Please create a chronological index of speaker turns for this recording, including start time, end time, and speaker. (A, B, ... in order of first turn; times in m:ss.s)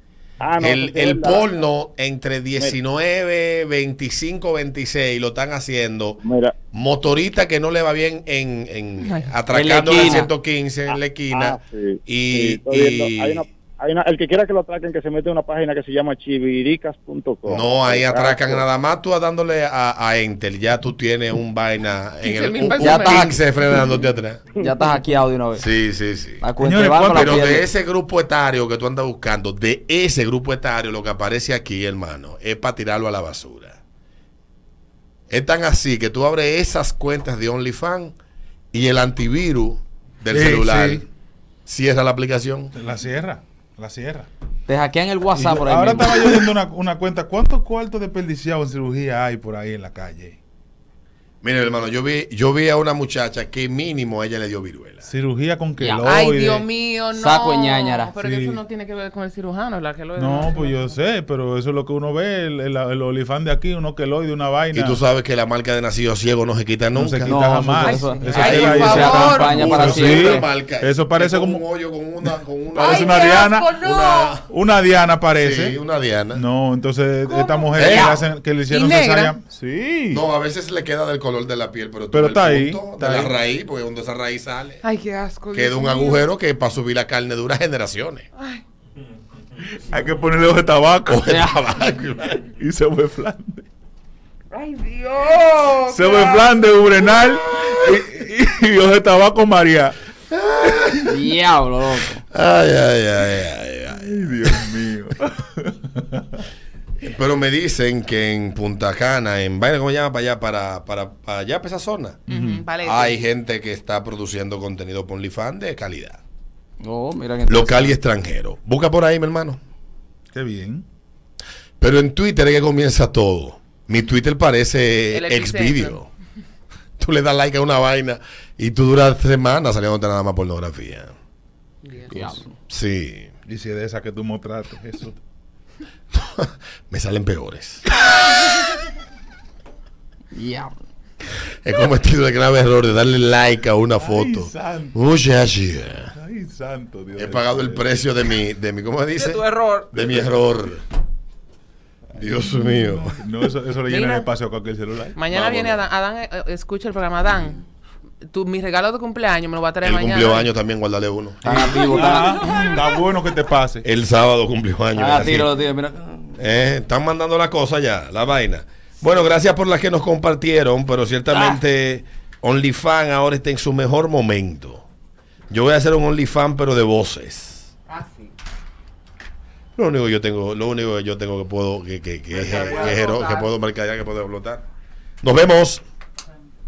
0:00.4-0:01.6 A
0:00.6-0:06.2 B
0:06.2-0:06.5 A
0:06.7-0:13.5 B
0:09.0-0:09.3 C
0:09.5-0:10.3 D
0:11.3-0:18.6 A
0:17.5-0:24.5 B
0:22.2-0:23.3 C
0:22.8-0:23.9 D
0:24.6-0:25.6 D
0:25.6-0:26.4 B
0:26.4-0:27.7 D
0:26.6-0:27.6 E
0:27.1-0:33.8 B
0:35.3-0:38.1 B
0:38.7-0:41.0 B
0:40.3-0:41.0 E
0:41.6-0:42.7 B
0:42.8-0:44.3 E
0:44.7-0:46.5 D
0:45.3-0:50.4 E
0:51.4-0:55.0 B
0:55.0-0:56.7 E
0:55.8-0:56.0 D
0:56.0-1:01.0 C
0:57.1-0:58.1 D
0:58.1-0:58.6 E
1:00.2-1:05.0 E
1:04.7-1:07.3 B
1:06.9-1:11.6 E
1:07.2-1:10.5 D
1:07.8-1:09.8 C
1:08.4-1:14.5 B
1:12.2-1:13.8 E
1:12.8-1:14.4 C
1:14.5-1:15.8 E
1:15.4-1:16.4 B
1:16.4-1:20.2 E
1:17.2-1:19.4 C
1:17.8-1:18.2 B
1:20.1-1:24.8 B
1:22.1-1:23.4 E
1:24.8-1:26.3 C
1:25.5-1:28.3 B
1:28.4-1:28.6 C
1:29.6-1:31.3 E
1:31.1-1:32.4 B
1:32.4-1:33.6 E
1:34.5-1:36.5 C
1:35.9-1:40.0 E
1:40.3-1:41.2 B
1:41.1-1:42.2 D
1:42.3-1:44.7 B
1:43.9-1:46.4 E
1:47.0-1:52.2 B
1:52.3-1:52.7 E
1:52.3-1:53.2 C
1:52.8-1:56.2 B
1:56.8-1:58.0 D
1:57.5-1:59.6 B
2:00.3-2:00.8 E
2:01.8-2:06.1 B
2:05.1-2:06.0 C
2:07.0-2:11.1 B
2:11.8-2:12.4 C
2:12.1-2:12.5 D
2:12.7-2:13.3 B
2:13.5-2:15.2 E
2:16.1-2:17.9 B
2:20.3-2:20.7 D
2:21.6-2:26.1 B
2:24.0-2:25.0 E
2:26.1-2:27.9 E
2:27.2-2:30.8 B
2:29.2-2:29.9 D
2:32.2-2:33.2 B
2:32.2-2:35.2 E
2:33.9-2:34.2 C
2:35.1-2:37.6 C
2:35.3-2:35.8 B
2:38.2-2:40.5 C
2:39.8-2:41.6 B
2:41.4-2:42.8 D
2:41.4-2:43.9 E
2:43.8-2:45.5 B
2:45.0-2:46.4 D
2:46.4-2:54.8 B
2:51.3-2:51.6 D
2:55.5-2:57.7 B
2:57.9-2:58.3 C
2:59.8-3:04.6 B
3:02.3-3:03.5 C
3:05.2-3:05.8 B